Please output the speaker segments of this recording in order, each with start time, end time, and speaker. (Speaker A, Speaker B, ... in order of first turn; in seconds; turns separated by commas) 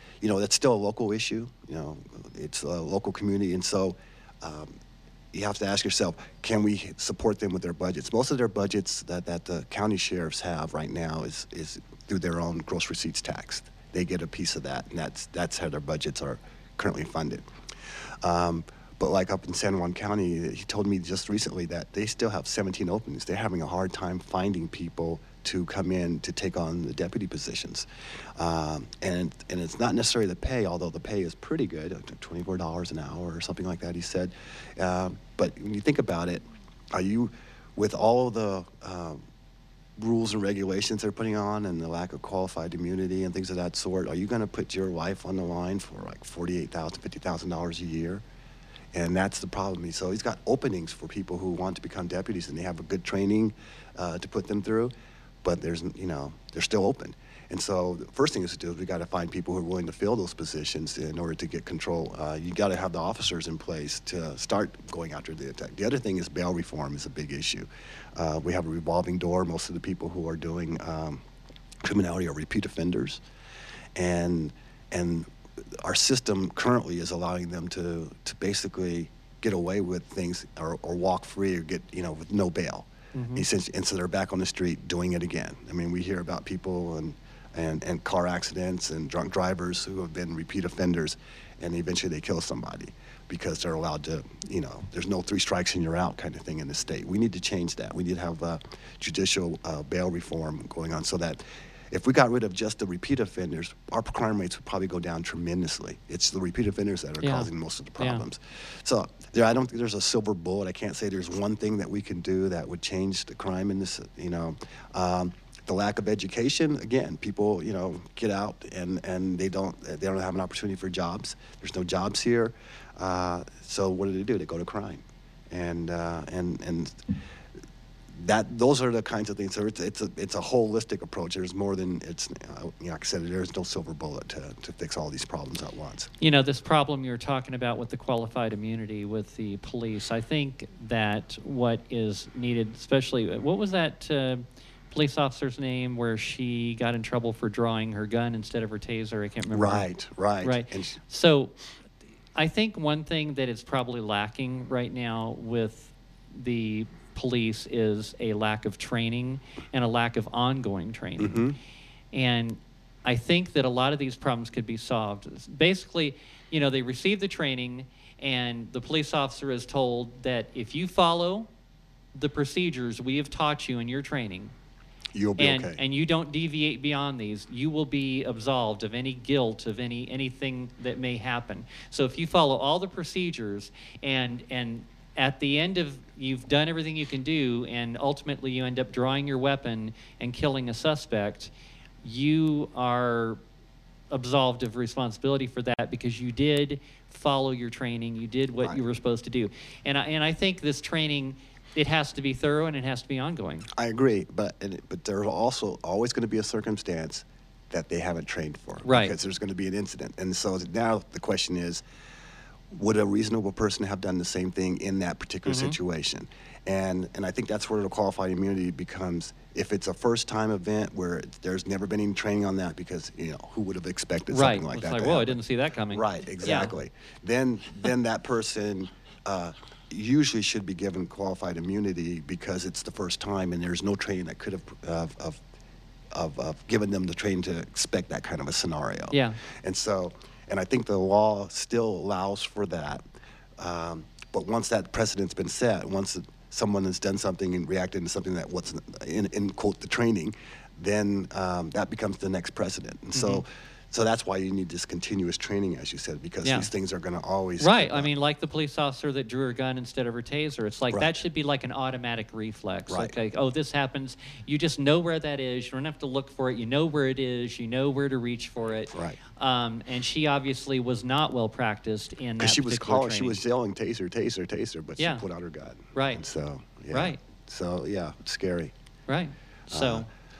Speaker A: 0.2-4.7, Speaker A: 5.3-17.4, Speaker A: 18.2-39.2, Speaker A: 40.0-48.2, Speaker A: 48.9-54.9, Speaker A: 55.4-71.2, Speaker A: 71.8-73.2, Speaker A: 74.0-127.1, Speaker B: 83.1-83.4, Speaker B: 107.2-108.2, Speaker A: 128.1-136.1, Speaker B: 136.2-149.9, Speaker A: 149.5-151.0, Speaker B: 150.4-151.6, Speaker B: 152.3-161.5, Speaker A: 161.2-161.6, Speaker B: 162.1-171.5, Speaker B: 172.1-174.5, Speaker A: 175.1-175.8, Speaker B: 175.4-191.5, Speaker B: 192.0-193.4, Speaker B: 194.1-203.7, Speaker A: 203.7-211.8, Speaker B: 208.9-209.1, Speaker A: 212.7-225.4, Speaker B: 215.4-215.8, Speaker B: 224.3-226.7, Speaker A: 225.9-235.4, Speaker A: 236.1-243.0, Speaker B: 239.1-239.4, Speaker A: 243.6-258.1, Speaker B: 253.2-253.4, Speaker B: 256.4-256.7, Speaker B: 257.6-273.4, Speaker A: 262.9-263.2, Speaker A: 268.9-269.2, Speaker A: 272.4-278.7, Speaker B: 275.0-275.2, Speaker B: 275.9-276.2, Speaker B: 276.9-277.2, Speaker B: 279.1-280.1, Speaker A: 279.7-280.1